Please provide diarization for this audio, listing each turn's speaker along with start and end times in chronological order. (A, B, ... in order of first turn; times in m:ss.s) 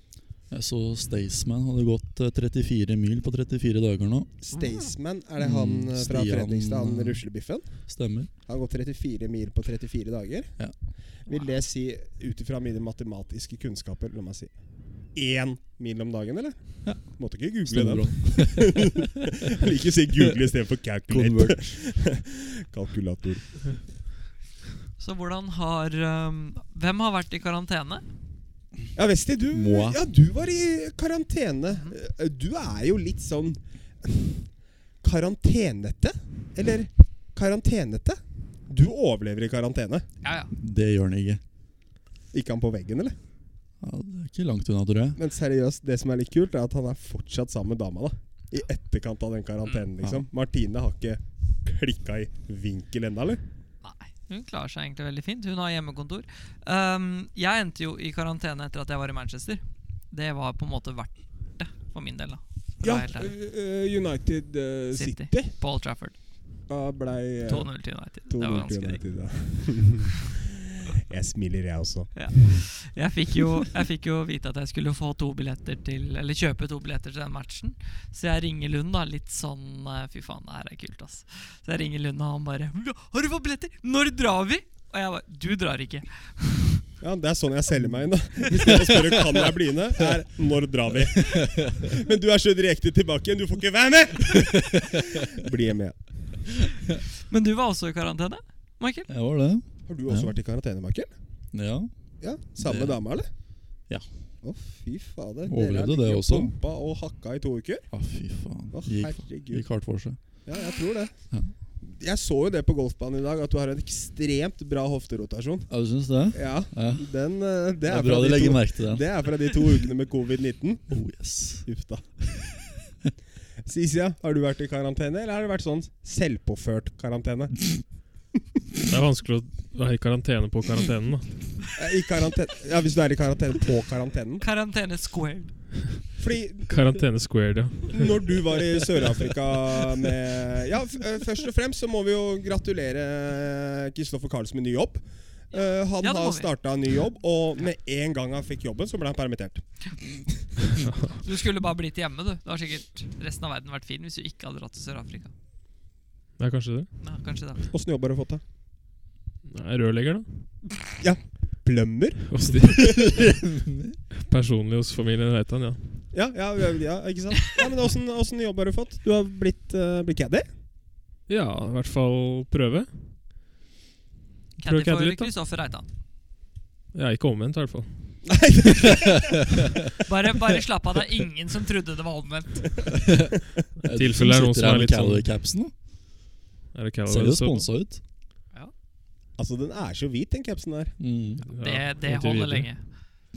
0:00.5-0:04.3 A
0:04.4-0:07.8 B
0:04.5-0:04.9 C
0:05.4-0:07.3 A
0:07.9-0:08.3 A
0:08.4-0:10.6 B
0:11.2-0:14.6 B
0:11.3-0:11.6 C
0:15.1-0:23.8 B
0:17.7-0:19.1 A
0:21.1-0:22.0 A
0:25.0-0:28.0 C
0:29.0-0:40.0 B
0:29.5-0:30.0 A
0:31.7-0:32.0 C
0:40.2-0:40.5 C
0:40.5-0:41.4 A
0:42.3-0:43.2 B
0:43.8-0:45.2 A
0:45.2-0:53.4 B
0:50.0-0:50.3 A
0:53.8-1:03.3 C
1:02.8-1:05.5 B
1:04.9-1:06.2 C
1:06.7-1:12.6 B
1:07.5-1:09.0 C
1:12.2-1:26.8 C
1:27.0-1:36.5 B
1:34.4-1:35.0 A
1:37.3-1:39.1 C
1:39.1-1:40.4 A
1:39.9-1:41.1 B
1:41.5-1:41.9 A
1:42.2-1:43.3 B
1:42.6-1:43.0 A
1:44.4-1:47.9 B
1:45.5-1:46.5 A
1:47.9-1:50.2 A
1:48.7-1:49.9 B
1:50.4-1:51.1 B
1:51.8-1:55.7 B
1:55.7-1:57.1 A
1:56.3-2:02.1 B
1:57.8-1:59.0 A
2:00.9-2:01.7 A
2:03.6-2:08.0 B
2:08.9-2:11.5 D
2:11.8-2:14.4 B
2:14.4-2:15.6 C
2:16.2-2:16.7 B
2:16.7-2:18.1 D
2:17.9-2:30.6 B
2:25.5-2:26.5 C
2:30.8-2:31.2 D
2:31.2-2:35.3 C
2:36.4-2:36.9 D
2:37.0-2:37.6 C
2:37.7-2:38.4 B
2:39.5-2:40.7 D
2:41.0-2:42.9 B
2:42.3-2:43.1 D
2:42.9-2:44.0 A
2:44.2-2:46.1 D
2:46.1-2:50.5 B
2:51.3-2:53.2 D
2:54.6-2:55.3 D
2:54.6-2:55.9 C
2:56.9-2:58.2 D
2:58.2-2:59.5 B
3:00.0-3:02.9 C
3:02.9-3:05.7 A
3:03.9-3:05.3 D
3:06.7-3:07.7 D
3:07.1-3:08.0 A
3:09.4-3:11.0 B
3:11.0-3:11.4 A
3:11.4-3:12.9 D
3:11.6-3:12.8 C